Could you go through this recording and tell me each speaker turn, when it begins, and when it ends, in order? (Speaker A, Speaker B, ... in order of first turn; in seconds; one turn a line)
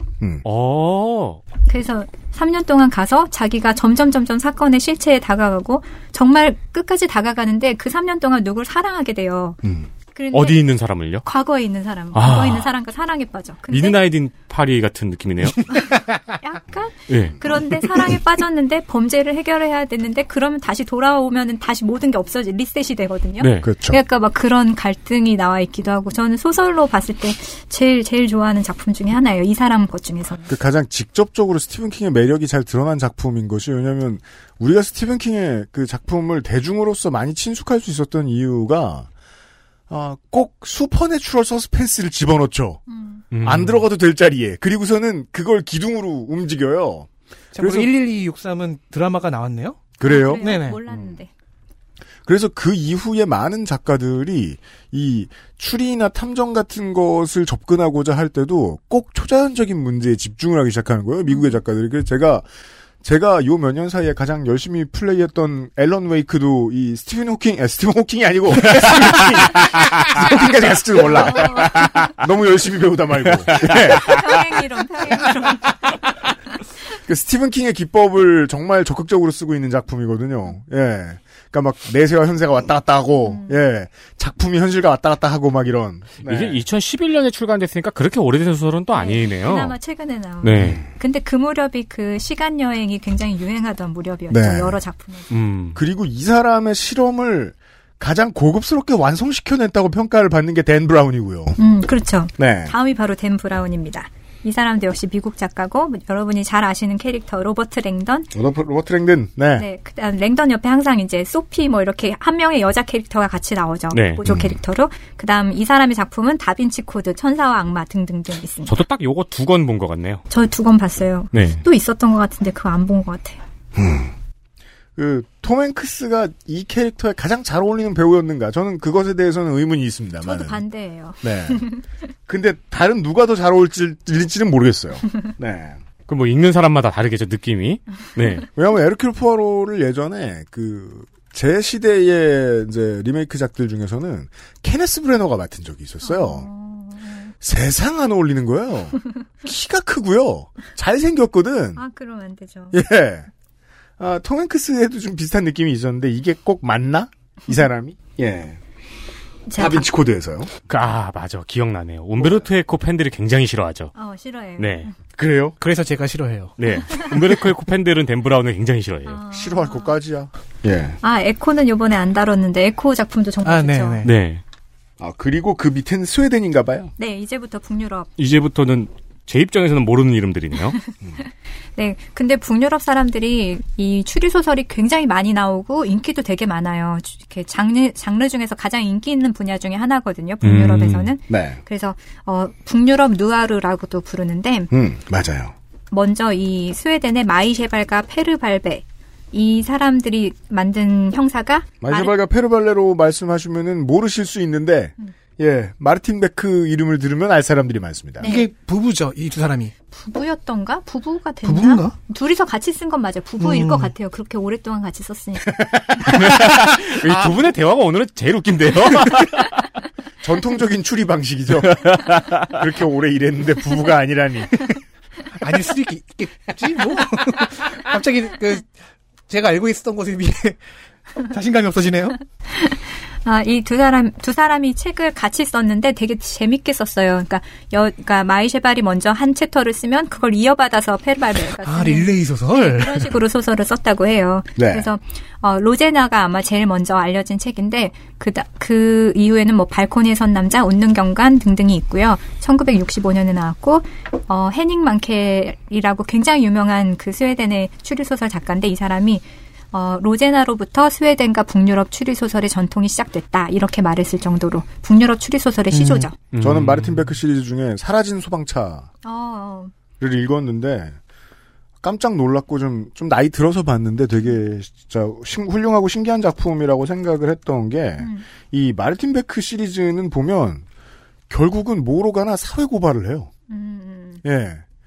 Speaker A: 0.4-1.4
Speaker B: 1.7-9.6
Speaker B: 10.2-10.7
Speaker A: 10.3-11.2
Speaker B: 11.2-14.0
Speaker A: 12.1-12.7
Speaker A: 13.7-15.6
Speaker B: 15.7-30.5
Speaker A: 17.1-17.4
Speaker A: 23.4-23.7
Speaker C: 23.6-24.0
Speaker C: 30.5-39.1
Speaker C: 39.9-42.8
Speaker B: 42.9-43.2
Speaker A: 43.3-43.9
Speaker C: 43.4-47.9
Speaker D: 47.5-50.8
Speaker C: 50.0-51.2
Speaker B: 50.0-51.3
Speaker C: 52.3-62.5
Speaker B: 61.3-61.5
Speaker C: 63.0-74.5
Speaker A: 68.9-69.6
Speaker B: 71.0-72.1
Speaker A: 73.5-73.7
Speaker B: 73.5-76.1
Speaker C: 75.0-75.5
Speaker C: 77.0-86.6
Speaker B: 83.2-83.6
Speaker A: 86.2-89.7
Speaker B: 88.9-95.3
Speaker A: 90.4-90.8
Speaker C: 90.6-90.8
Speaker C: 94.3-94.8
Speaker A: 95.3-95.8
Speaker C: 95.8-101.6
Speaker B: 101.6-108.3
Speaker C: 102.4-102.7
Speaker C: 108.3-109.7
Speaker B: 109.6-118.7
Speaker A: 113.9-114.2
Speaker C: 114.2-114.6
Speaker A: 118.7-120.2
Speaker B: 120.3-123.4
Speaker A: 121.3-121.6
Speaker C: 123.8-124.2
Speaker C: 125.0-130.6
Speaker B: 130.2-131.8
Speaker C: 131.2-131.7
Speaker C: 132.3-135.8
Speaker A: 136.1-138.4
Speaker C: 138.6-146.5
Speaker B: 146.0-147.3
Speaker C: 147.4-151.8
Speaker B: 151.8-152.8
Speaker C: 152.7-153.3
Speaker C: 154.0-158.6
Speaker B: 159.5-159.9
Speaker C: 159.6-160.5
Speaker A: 160.7-163.9
Speaker C: 162.2-162.5
Speaker B: 163.9-165.0
Speaker A: 164.6-164.9
Speaker C: 165.2-165.6
Speaker D: 165.6-166.5
Speaker A: 166.6-169.2
Speaker B: 166.9-167.2
Speaker B: 169.1-170.0
Speaker C: 169.3-171.0
Speaker B: 171.0-174.0
Speaker D: 173.4-174.1
Speaker A: 174.0-174.4
Speaker C: 175.0-176.9
Speaker B: 177.0-178.1
Speaker A: 178.2-180.8
Speaker B: 180.8-194.7
Speaker A: 190.4-191.1
Speaker C: 191.3-191.6
Speaker C: 194.7-195.6
Speaker B: 195.9-202.1
Speaker C: 201.8-208.3
Speaker B: 208.2-208.5
Speaker D: 208.2-209.7
Speaker B: 209.9-215.6
Speaker D: 211.4-212.0
Speaker D: 213.4-213.9
Speaker C: 215.5-216.2
Speaker A: 216.1-219.6
Speaker D: 217.1-217.3
Speaker C: 220.2-224.7
Speaker D: 225.4-228.7
Speaker D: 229.3-230.6
Speaker D: 231.2-232.2
Speaker B: 232.5-266.2
Speaker D: 241.6-243.1
Speaker C: 244.6-244.9
Speaker D: 265.7-266.1
Speaker A: 266.3-267.1
Speaker C: 266.4-268.9
Speaker B: 269.0-269.7
Speaker C: 270.0-271.0
Speaker C: 271.8-280.6
Speaker B: 278.0-278.3
Speaker C: 281.3-283.3
Speaker B: 283.5-284.2
Speaker C: 284.2-284.6